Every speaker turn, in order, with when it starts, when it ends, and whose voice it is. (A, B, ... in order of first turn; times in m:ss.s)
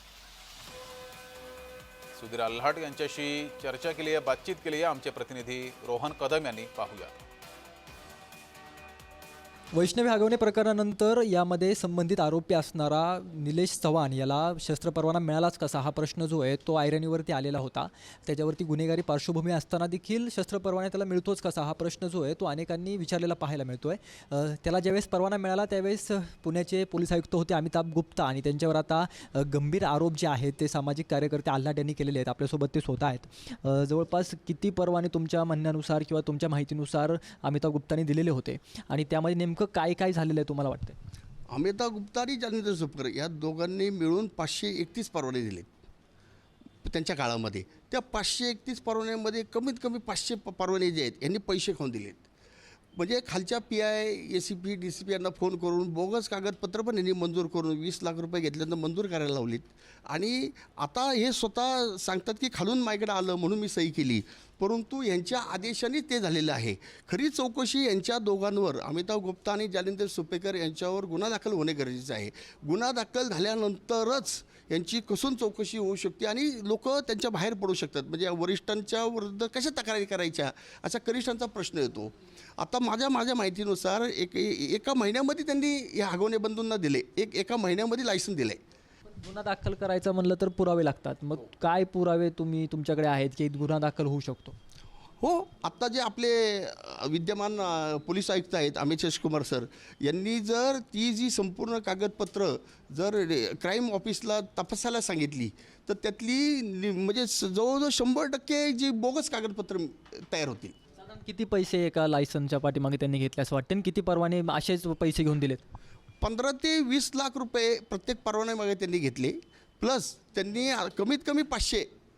0:02.1-0:07.2 A
0:09.7-0:41.0 B
0:41.5-0:45.7 C
0:46.8-0:52.2 C
0:53.0-1:28.6 C
1:29.1-1:34.5 B
1:35.2-1:50.7 C
1:51.0-1:55.6 B
1:56.2-2:01.9 C